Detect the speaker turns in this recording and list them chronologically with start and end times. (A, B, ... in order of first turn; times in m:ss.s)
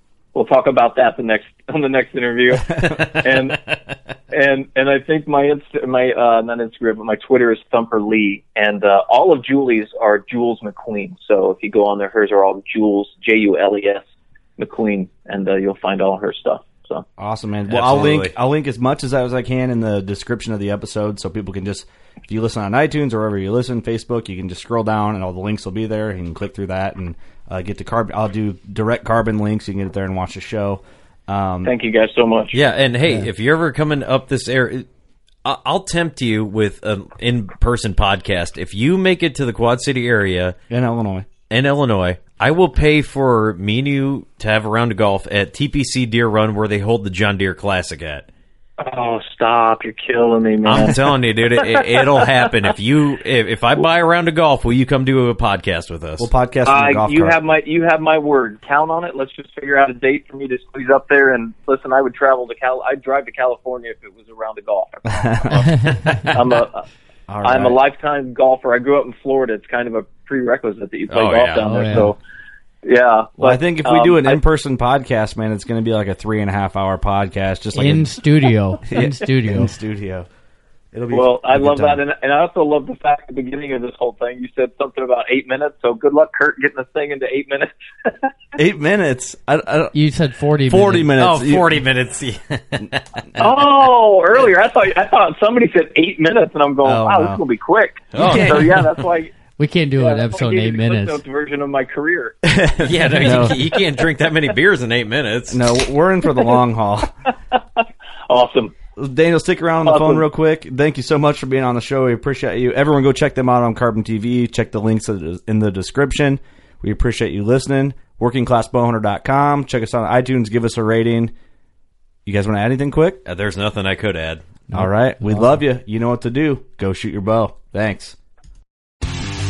0:00.3-0:03.6 A
0:02.8-0:03.5 B
0:04.3-0:14.0 A
0:14.6-0:17.0 A
0:17.2-0:31.7 C
0:17.7-0:18.3 B
0:31.6-0:32.6 A
0:32.5-0:34.9 B
0:35.4-0:40.6 B
0:40.7-0:41.3 C
0:41.5-0:48.2 B
0:48.8-0:51.0 A
0:50.6-0:56.3 B
0:51.8-0:52.2 A
0:56.2-0:57.4 C
0:56.6-1:05.6 A
1:05.1-1:06.3 C
1:05.5-1:06.2 D
1:06.2-1:06.8 A
1:07.3-1:07.8 C
1:07.4-1:12.2 A
1:11.1-1:12.0 B
1:11.6-1:12.1 D
1:12.8-1:14.4 A
1:13.4-1:18.2 C
1:17.7-1:19.7 D
1:18.8-1:20.3 C
1:20.9-1:22.0 C
1:21.1-1:28.3 A
1:28.5-1:29.9 C
1:29.9-1:31.2 D
1:30.6-1:31.8 C
1:31.2-1:33.7 B
1:33.4-1:42.5 A
1:36.8-1:37.4 C
1:38.1-1:38.9 B
1:39.5-1:41.2 D
1:42.5-1:43.6 C
1:42.8-1:45.6 B
1:43.1-1:43.8 A
1:45.5-1:47.1 C
1:47.5-1:48.7 A
1:49.0-2:01.3 C
1:49.8-1:50.2 A
2:02.2-2:03.2 C
2:03.2-2:04.4 B
2:04.7-2:05.6 D
2:04.7-2:08.2 C